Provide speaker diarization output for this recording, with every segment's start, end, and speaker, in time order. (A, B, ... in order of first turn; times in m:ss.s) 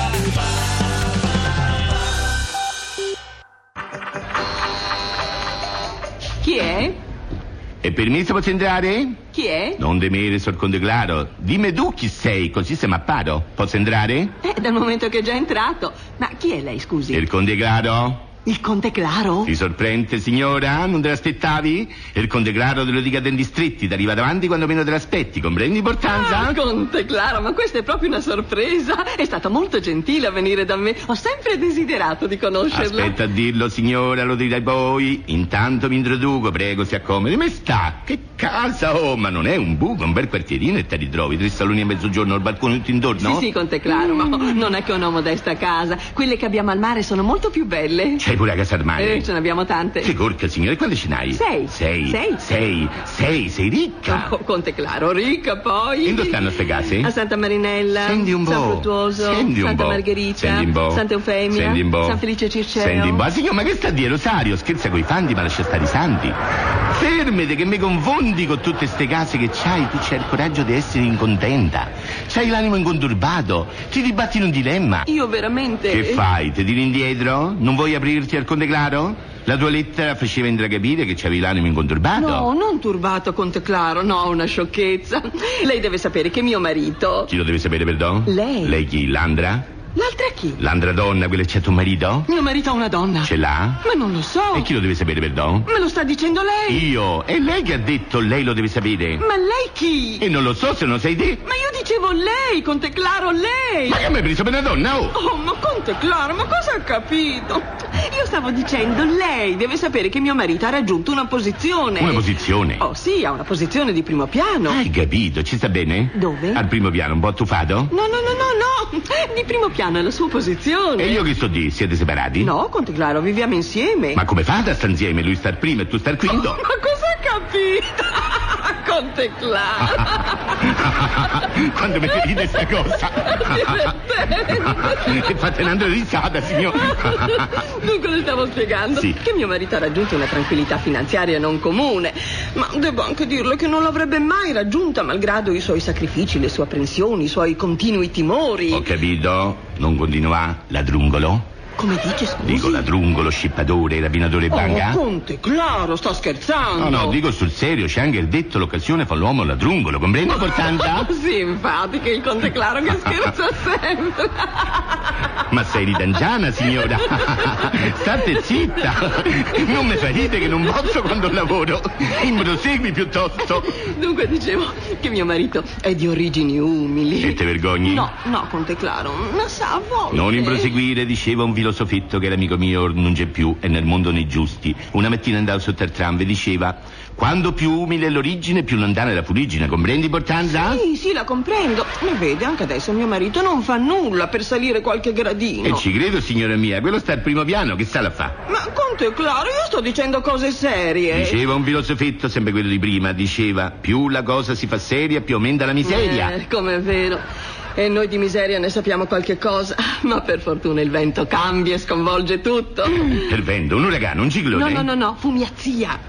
0:06.4-0:07.0 A
0:07.8-0:09.2 B
0:09.3-0:09.8 A
0:09.8-0:14.3 B
0:14.4-0:17.3 A
0:17.1-0:18.3 B
0:18.4-0:19.5 A
0:19.5-0:26.6 B
0:26.0-0:33.2 A
0:32.7-0:43.5 B
0:43.2-0:48.2 A
0:48.2-0:49.3 B
0:49.0-0:50.2 A
0:50.0-0:54.3 B
0:51.3-0:52.4 A
0:54.1-1:03.3 A
0:56.0-0:57.1 B
0:58.0-1:02.2 B
1:02.8-1:06.4 B
1:06.9-1:15.1 B
1:15.1-1:16.2 A
1:15.9-1:22.5 B
1:22.2-1:27.3 A
1:27.3-1:29.7 B
1:28.3-1:28.8 A
1:30.0-1:30.6 A
1:30.6-1:32.3 B
1:32.3-1:34.7 A
1:33.2-1:33.8 B
1:34.5-1:35.7 B
1:35.7-1:36.9 A
1:36.7-1:39.2 B
1:39.2-1:40.3 A
1:40.2-1:41.4 B
1:41.4-1:44.0 A
1:43.9-1:45.2 B
1:45.1-1:54.8 A
1:52.0-1:52.8 B
1:54.7-1:57.9 B
1:56.1-1:56.6 A
1:57.9-2:01.3 A
2:01.0-2:02.5 B
2:02.4-2:04.2 A
2:04.2-2:06.6 B
2:06.3-2:11.6 A
2:10.6-2:14.0 B
2:12.1-2:15.4 A
2:14.5-2:17.6 B
2:16.5-2:28.9 A
2:28.7-2:31.4 B
2:31.8-2:32.9 A
2:32.4-2:35.0 B
2:34.5-2:37.2 A
2:36.8-2:41.1 B
2:40.3-2:45.3 A
2:42.9-2:43.3 B
2:45.5-2:53.8 B
2:46.6-2:51.0 A
2:53.4-3:00.8 A
2:57.2-2:58.1 B
3:00.1-3:10.8 B
3:10.5-3:15.8 A
3:15.6-3:18.3 B
3:18.5-3:21.4 A
3:21.1-3:26.4 B
3:25.8-3:27.2 A
3:27.8-3:33.4 A
3:32.9-3:34.9 B
3:34.5-3:36.0 A